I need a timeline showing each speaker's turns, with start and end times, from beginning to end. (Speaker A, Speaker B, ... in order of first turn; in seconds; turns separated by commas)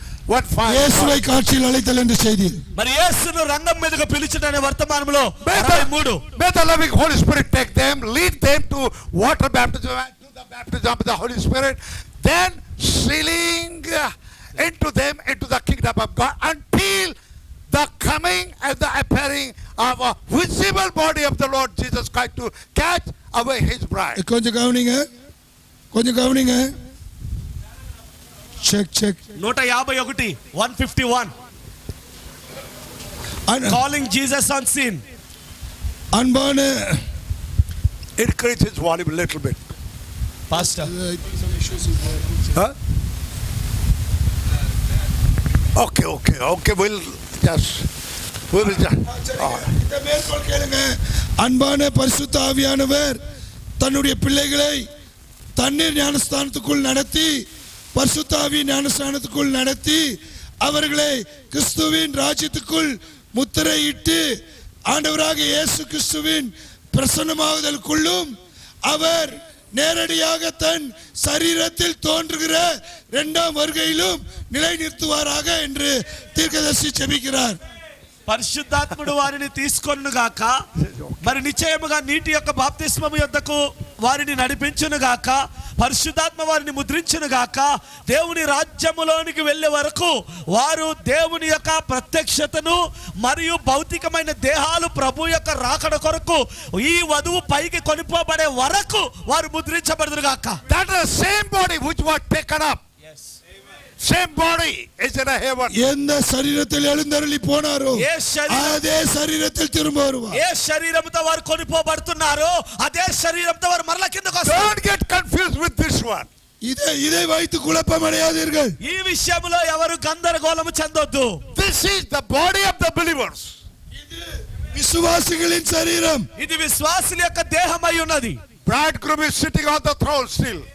Speaker A: 0.3-1.2, Speaker B: 0.7-2.6, Speaker C: 2.8-6.2, Speaker A: 5.4-17.1, Speaker A: 17.7-24.2, Speaker B: 24.1-25.1, Speaker B: 25.9-26.7, Speaker B: 28.6-29.2, Speaker C: 29.4-31.3, Speaker B: 33.5-33.8, Speaker C: 33.7-35.0, Speaker B: 36.1-37.0, Speaker A: 38.2-39.7, Speaker C: 40.5-40.9, Speaker B: 40.6-42.2, Speaker A: 45.8-47.9, Speaker A: 48.5-49.7, Speaker B: 49.0-53.2, Speaker B: 53.8-54.8, Speaker B: 55.6-64.2, Speaker B: 64.9-68.3, Speaker B: 68.9-77.6, Speaker C: 78.3-80.6, Speaker A: 80.8-81.3, Speaker C: 81.2-100.6, Speaker A: 100.7-102.8, Speaker A: 104.0-105.8, Speaker B: 105.7-110.4, Speaker C: 108.0-108.8, Speaker C: 110.3-114.7, Speaker A: 114.4-116.3, Speaker B: 116.6-118.7, Speaker C: 118.8-121.4, Speaker A: 121.5-123.5, Speaker B: 124.0-126.2, Speaker C: 126.4-128.4, Speaker A: 128.7-130.7